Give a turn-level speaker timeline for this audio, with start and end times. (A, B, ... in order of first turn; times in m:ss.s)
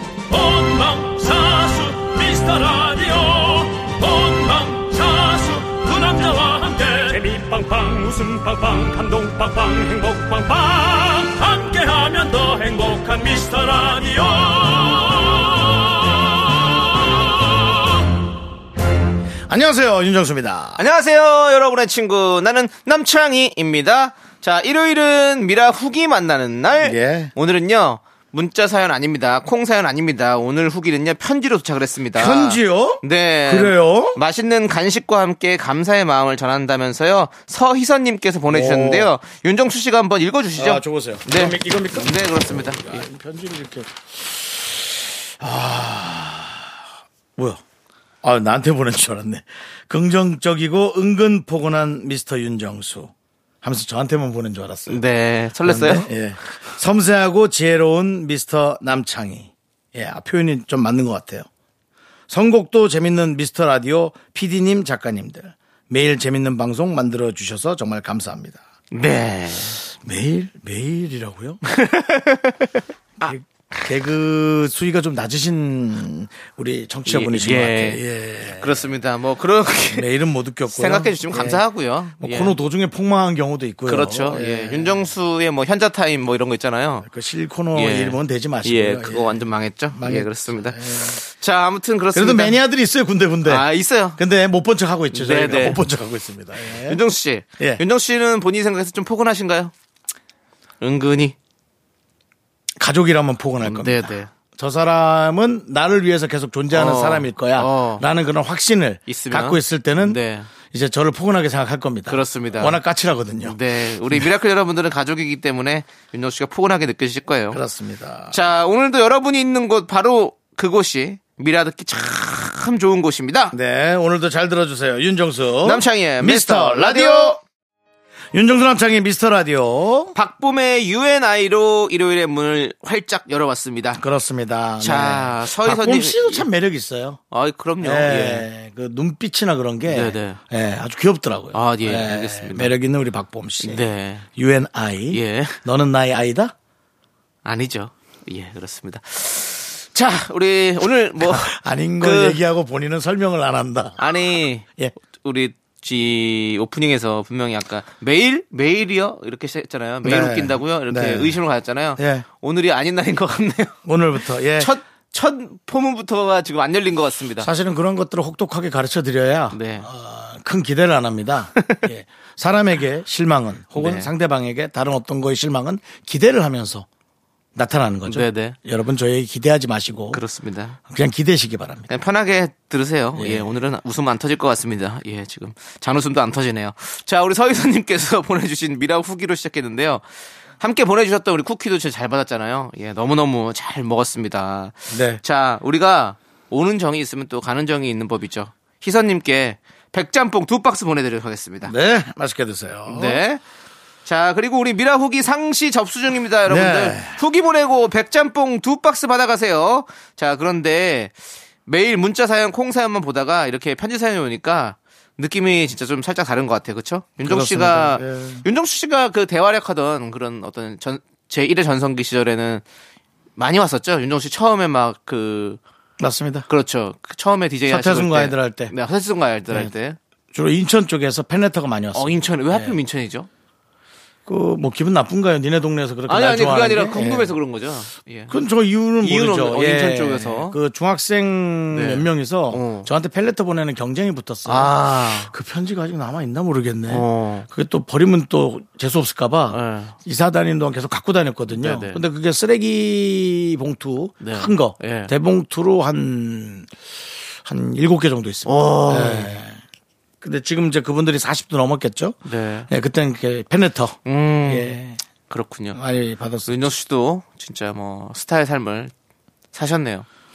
0:00.3-0:17.9 A
0:19.5-0:20.8 B
0:20.8-0:43.0 C
0:26.8-0:27.3 B
0:32.2-0:34.2 B
0:38.5-0:39.1 B
0:40.6-0:46.7 B
0:47.4-0:47.6 B
0:48.2-0:53.1 B
0:53.6-0:55.0 B
0:54.9-0:56.1 C
0:55.6-1:01.5 B
1:02.3-1:08.6 B
1:08.9-1:09.8 C
1:10.0-1:11.6 B
1:11.7-1:13.3 C
1:13.2-1:18.8 B
1:17.1-1:20.1 C
1:19.9-1:21.6 B
1:20.7-1:22.6 C
1:22.2-1:25.1 B
1:23.9-1:27.1 C
1:27.0-1:29.4 B
1:27.7-1:32.6 C
1:29.9-1:31.2 B
1:32.1-1:37.0 B
1:33.4-1:34.2 C
1:35.1-1:35.8 C
1:36.9-1:39.7 C
1:40.8-1:41.4 C
1:42.8-1:50.2 B
1:43.6-1:44.3 C
1:46.7-1:48.0 C
1:49.1-1:50.5 C
1:50.7-1:53.6 B
1:52.1-1:52.8 C
1:53.4-1:57.6 C
1:57.5-1:58.4 B
1:58.3-2:03.6 C
2:03.5-2:07.4 B
2:05.6-2:07.4 C
2:08.3-2:10.1 B
2:10.1-2:14.0 C
2:14.0-2:17.2 B
2:14.8-2:16.5 C
2:17.3-2:18.5 C
2:17.8-2:23.8 B
2:19.9-2:20.4 C
2:21.5-2:22.7 C
2:23.6-2:24.3 C
2:24.4-2:26.5 B
2:25.1-2:25.6 C
2:27.4-2:32.4 C
2:31.2-2:34.0 B
2:34.0-2:34.7 C
2:35.2-2:43.8 C
2:40.0-2:41.4 B
2:42.0-2:42.3 B
2:43.8-2:44.7 B
2:44.6-2:47.5 C
2:47.4-2:56.9 B
2:49.5-2:49.9 C
2:51.6-2:51.8 C
2:53.8-2:54.1 C
2:57.6-3:00.2 B
2:58.1-2:58.6 C
3:00.1-3:00.8 C
3:00.9-3:01.9 B
3:01.9-3:10.0 C
3:03.2-3:03.5 B
3:10.6-3:21.7 C
3:14.9-3:15.2 B
3:21.6-3:23.2 B
3:22.9-3:23.4 C
3:24.1-3:31.1 C
3:26.5-3:27.2 B
3:31.7-3:42.6 C
3:37.2-3:38.4 B
3:43.4-3:45.6 C
3:46.0-3:46.5 B
3:46.5-3:50.0 C
3:47.7-3:48.7 B
3:50.3-3:52.8 B
3:51.9-3:53.3 C
3:54.3-3:57.3 B
3:56.1-3:58.3 C
3:58.3-4:16.7 B
3:59.0-4:00.6 C
4:01.7-4:02.9 C
4:04.4-4:05.3 C
4:06.9-4:07.5 C
4:09.5-4:10.0 C
4:11.5-4:12.0 C
4:14.2-4:15.1 C
4:17.4-4:19.6 B
4:18.5-4:19.3 C
4:20.2-4:25.0 B
4:22.2-4:22.7 C
4:24.1-4:24.8 C
4:25.3-4:25.8 C
4:25.7-4:26.6 B
4:26.5-4:28.9 C
4:29.5-4:30.1 C